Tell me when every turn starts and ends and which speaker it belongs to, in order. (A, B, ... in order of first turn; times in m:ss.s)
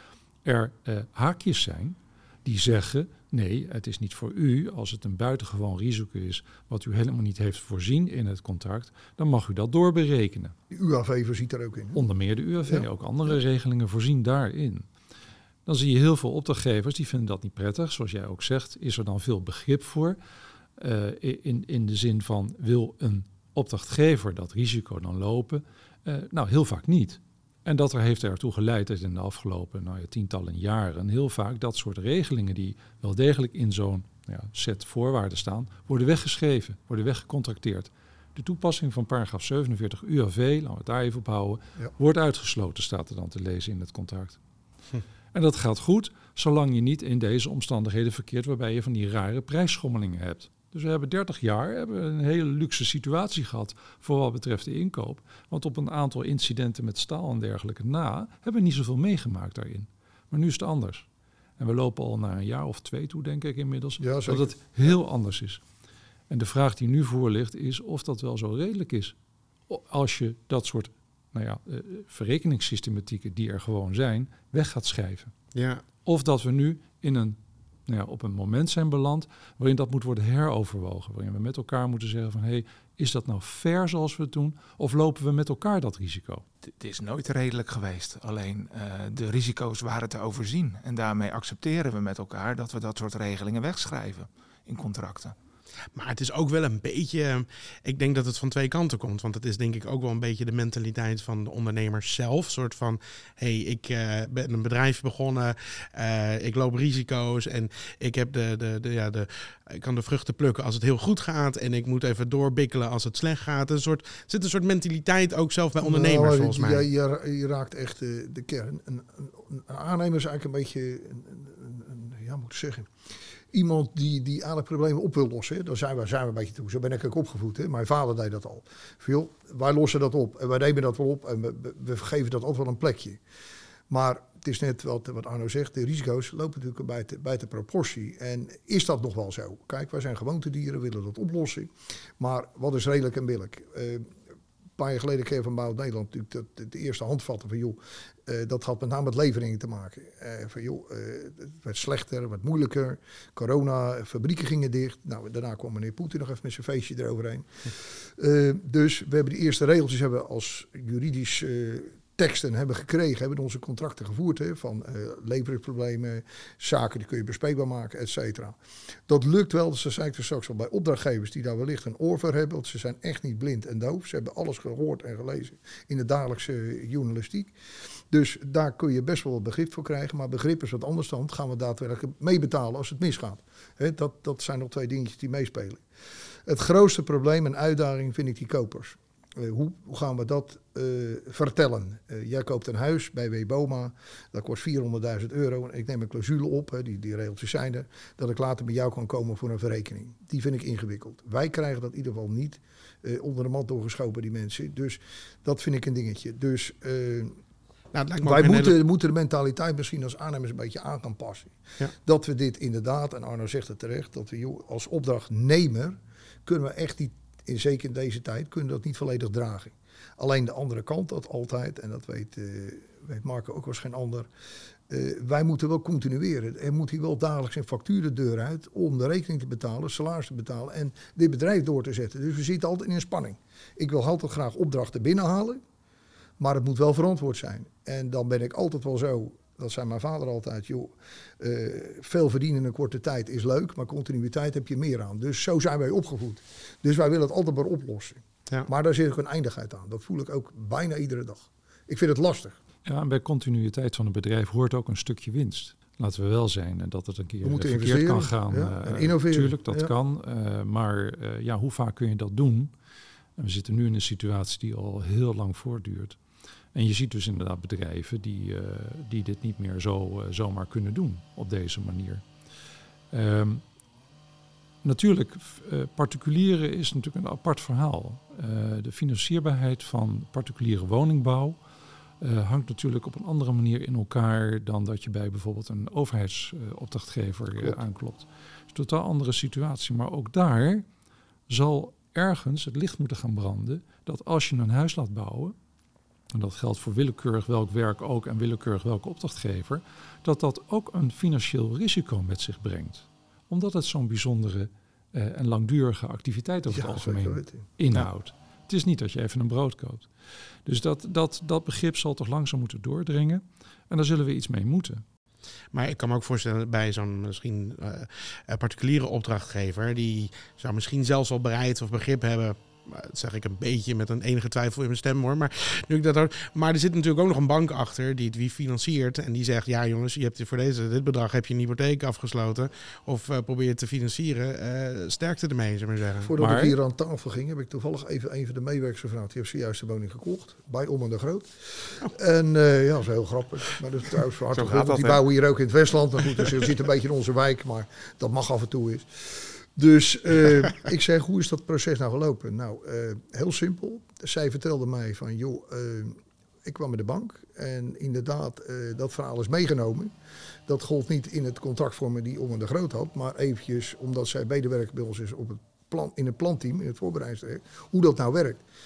0:00.4-0:10.5 A
0:10.7-0:12.0 B
0:11.9-0:14.9 A
0:15.6-0:20.2 A
0:20.8-0:44.4 A
0:45.3-1:01.0 A
1:01.6-1:05.6 A
1:04.0-1:04.5 B
1:06.3-1:09.1 A
1:09.7-1:15.3 A
1:15.5-1:15.8 C
1:16.0-1:26.4 A
1:26.7-1:35.3 D
1:35.9-1:56.8 C
1:55.8-2:02.9 B
2:03.5-2:13.2 B
2:13.9-2:24.1 B
2:24.8-2:48.6 B
2:49.1-2:57.5 B
2:58.1-3:05.8 B
3:06.4-3:27.4 B
3:27.9-3:28.8 C
3:28.2-3:44.3 B
3:44.9-3:55.6 B
3:56.4-4:12.6 B
4:12.8-4:22.7 A
4:17.4-4:19.9 B
4:23.4-4:26.2 A
4:26.7-4:32.2 A
4:33.1-4:33.6 A
4:34.8-4:41.6 A
4:42.2-4:50.8 A
4:51.5-4:55.5 A
4:56.3-5:10.1 A
5:06.7-5:07.6 B
5:10.6-5:15.0 A
5:15.7-5:36.3 C
5:36.2-6:00.1 B
5:36.4-5:36.8 A
5:44.5-5:45.2 D
6:00.6-6:08.6 B